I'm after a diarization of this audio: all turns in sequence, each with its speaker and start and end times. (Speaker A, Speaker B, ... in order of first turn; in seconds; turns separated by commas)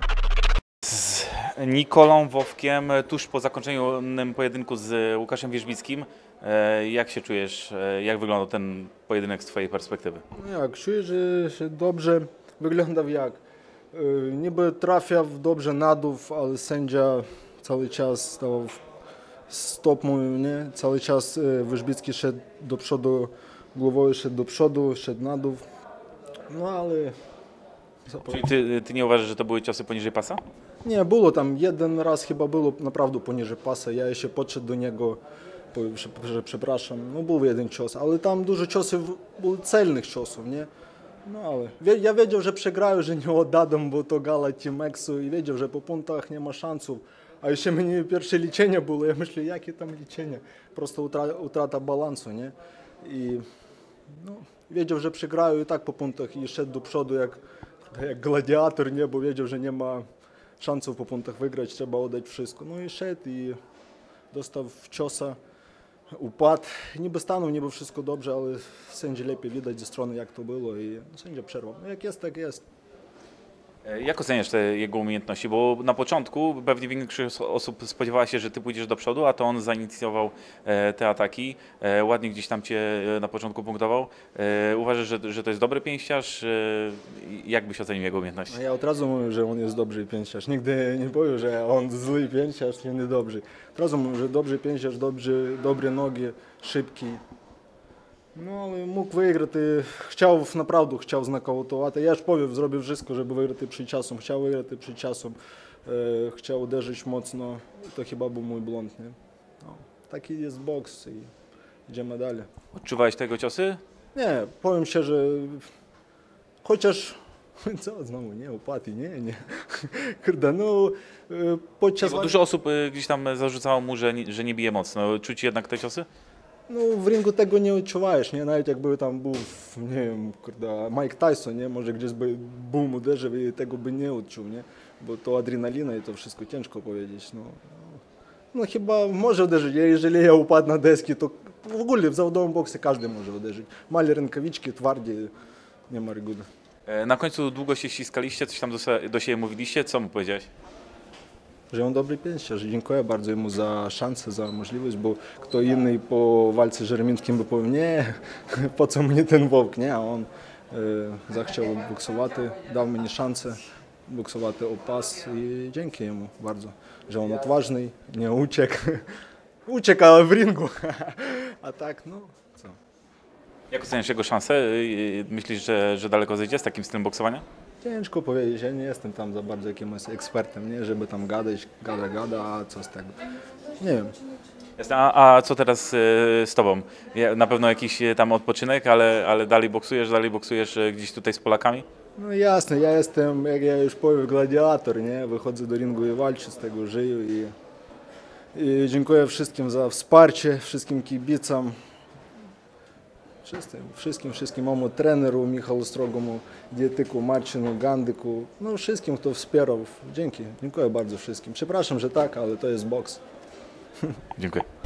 Speaker A: 0.8-10.2, Speaker B: 10.3-13.4, Speaker B: 13.9-18.8, Speaker B: 19.5-25.6, Speaker B: 26.5-27.1, Speaker B: 28.1-28.4, Speaker A: 28.3-30.4, Speaker B: 30.8-35.2, Speaker B: 35.7-40.7, Speaker B: 41.2-53.4, Speaker B: 54.1-60.0, Speaker B: 60.6-63.6, Speaker B: 64.3-65.4, Speaker B: 66.1-72.6, Speaker A: 73.8-88.6, Speaker B: 88.5-97.2, Speaker B: 98.3-111.3, Speaker B: 111.9-112.5, Speaker A: 112.8-113.8, Speaker B: 114.2-115.7, Speaker B: 116.6-122.4, Speaker A: 122.0-126.1, Speaker B: 126.7-137.8, Speaker B: 138.5-145.3, Speaker B: 145.9-146.5, Speaker A: 146.9-150.5, Speaker B: 151.7-169.1, Speaker B: 169.7-172.8, Speaker A: 173.7-177.4, Speaker B: 177.8-183.2, Speaker B: 183.8-184.1, Speaker A: 184.8-191.8, Speaker B: 192.2-197.5, Speaker B: 198.5-201.8, Speaker B: 203.4-213.2, Speaker A: 214.4-214.7